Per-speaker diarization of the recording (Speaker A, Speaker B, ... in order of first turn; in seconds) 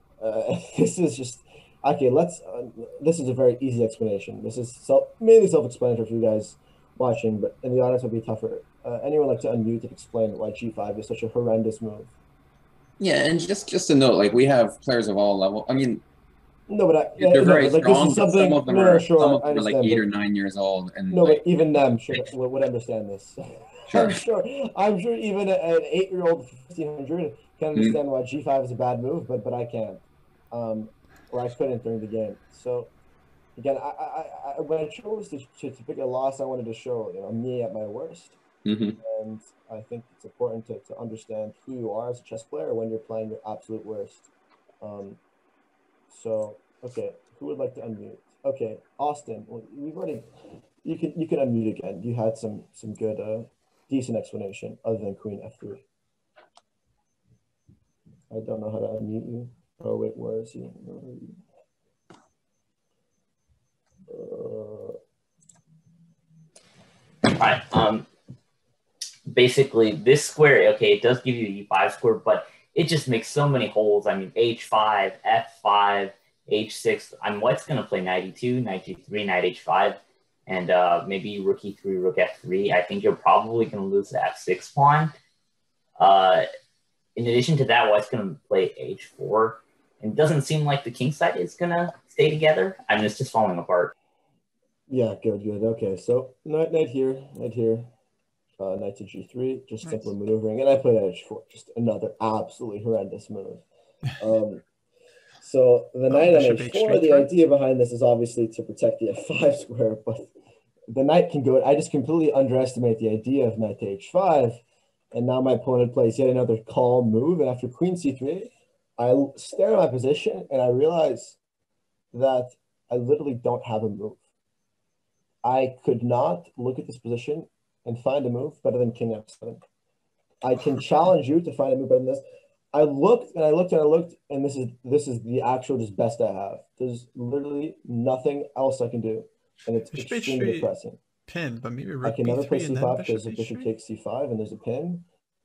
Speaker A: 0.2-12.1, 16.7-20.0, 21.1-32.9, 33.6-38.4, 39.0-44.3, 44.8-45.2, 46.1-50.3, 50.8-55.8, 58.3-61.4, 64.1-65.0, 94.9-97.9, 98.6-103.6, 104.2-104.6, 105.4-110.3, 110.9-114.6, 115.1-121.4, 122.1-124.2, 125.4-129.6, 130.4-132.2, 132.7-141.0, 142.0-145.0
Speaker B: 13.0-16.0, 17.2-21.6, 23.9-24.2, 38.6-39.0
Speaker C: 67.3-68.1, 69.3-85.1, 86.0-86.5, 87.2-93.9
Speaker D: 99.8-100.1, 106.1-107.3, 139.9-140.7, 141.2-143.7